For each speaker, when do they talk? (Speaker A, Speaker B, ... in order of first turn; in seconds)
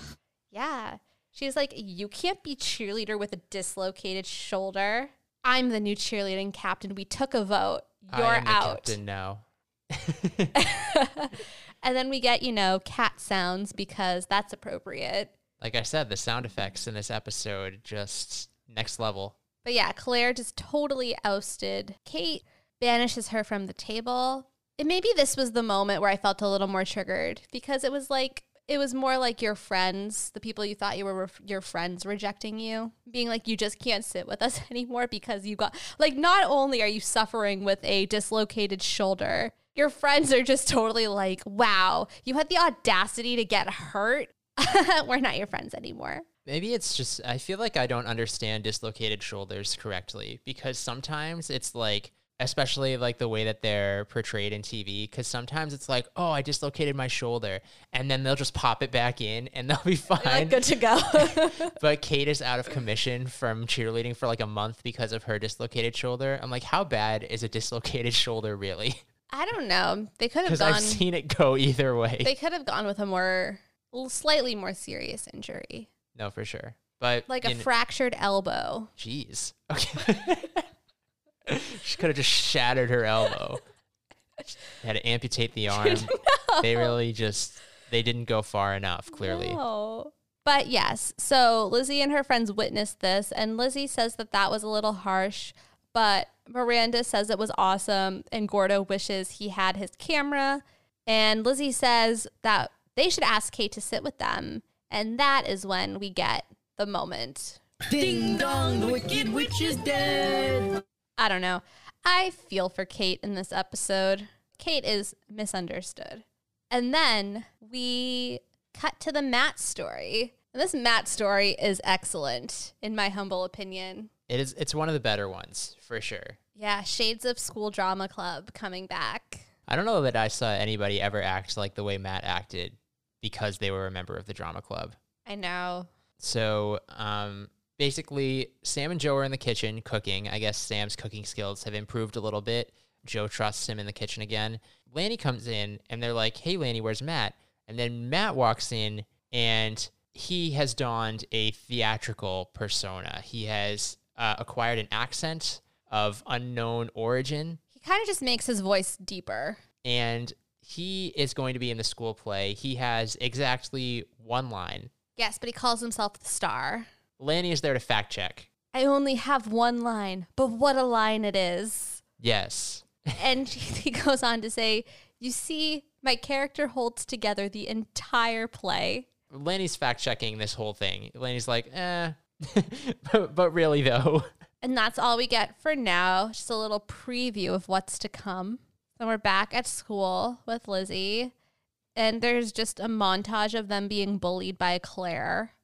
Speaker A: 0.5-9.0, 10.6-15.3, 19.6-46.2, 60.2-61.8, 69.3-71.0, 72.2-75.9, 77.3-78.9, 85.7-86.9, 89.1-107.6, 111.2-124.1, 126.5-129.4, 135.2-135.9, 157.7-159.6, 165.2-166.9, 168.7-172.0, 173.2-179.1, 184.6-191.3, 191.9-195.5
Speaker B: 8.1-10.6, 15.6-19.4, 46.5-60.6, 61.1-69.0, 70.4-72.3, 76.1-77.7, 79.0-80.7, 81.5-83.6, 84.8-89.6, 124.3-126.4, 129.7-135.0, 136.2-157.6, 159.8-164.9, 167.2-168.5, 172.2-173.1, 179.3-184.3
Speaker C: 107.9-110.8